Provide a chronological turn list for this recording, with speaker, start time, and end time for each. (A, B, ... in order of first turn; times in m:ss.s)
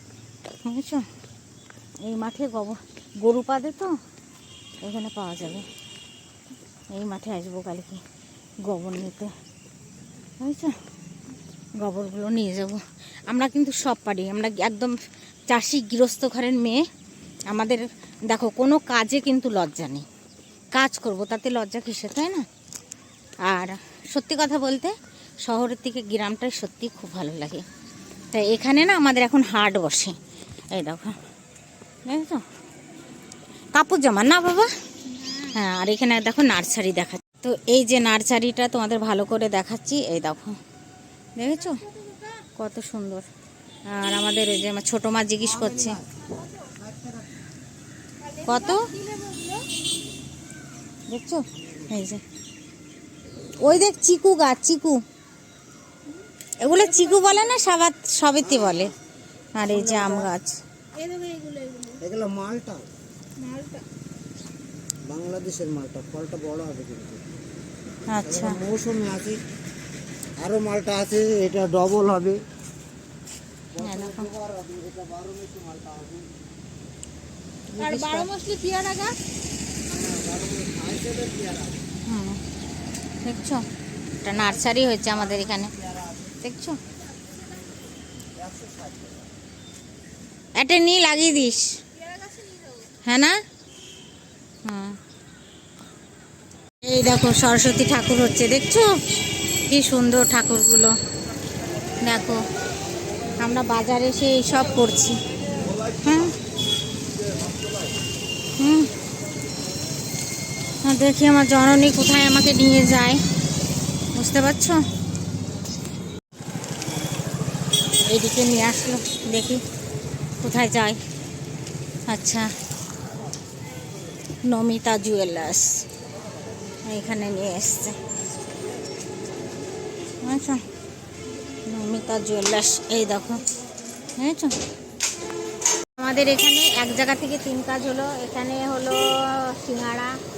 0:00.6-0:01.1 A
0:02.0-0:03.9 A
0:04.8-0:05.7 A
0:06.9-0:08.0 A
0:08.6-0:09.3 A
0:10.4-0:10.8 A
0:11.8-0:15.0 A
0:15.5-0:16.8 A
0:17.5-0:20.1 A
0:20.7-0:22.5 A
0:23.4-0:27.6 A
0:28.3-0:30.2 A
0:30.7-0:31.2 A
0:32.1-0:32.5 A
0:33.7-0:34.7 A
0:35.1-0:35.6 B
0:35.5-0:40.6 A
0:41.4-0:41.9 A
0:41.7-0:42.4 B
0:42.6-0:43.3 A
0:43.9-0:46.0 A
0:46.2-0:46.8 B
0:48.2-0:49.7 B
0:48.5-0:48.9 A
0:51.1-0:52.2 A
0:53.6-0:55.0 A
0:56.6-0:58.9 A
0:56.7-0:57.7 B
0:59.6-1:00.6 A
1:00.9-1:02.1 B
1:02.1-1:02.9 C
1:03.4-1:03.8 B
1:05.0-1:07.2 C
1:08.1-1:08.7 A
1:08.6-1:09.4 C
1:10.4-1:12.4 C
1:13.8-1:14.4 A
1:14.4-1:16.3 C
1:17.7-1:18.3 A
1:17.8-1:19.2 B
1:19.9-1:21.8 C
1:22.1-1:22.4 A
1:23.2-1:23.6 A
1:24.2-1:25.7 A
1:26.4-1:26.8 A
1:28.5-1:29.0 C
1:30.6-1:31.7 A
1:32.2-1:32.9 B
1:33.0-1:33.4 A
1:34.6-1:35.0 A
1:36.8-1:38.9 A
1:39.6-1:41.0 A
1:42.0-1:42.4 A
1:43.4-1:45.2 A
1:46.0-1:46.4 A
1:48.6-1:48.9 A
1:50.8-1:53.2 A
1:54.2-1:54.8 A
1:58.0-1:59.6 A
2:00.4-2:01.0 A
2:02.1-2:02.5 A
2:04.4-2:05.8 A
2:06.9-2:08.0 A
2:10.2-2:10.6 A
2:11.6-2:13.4 A
2:14.2-2:14.6 A
2:16.0-2:20.2 A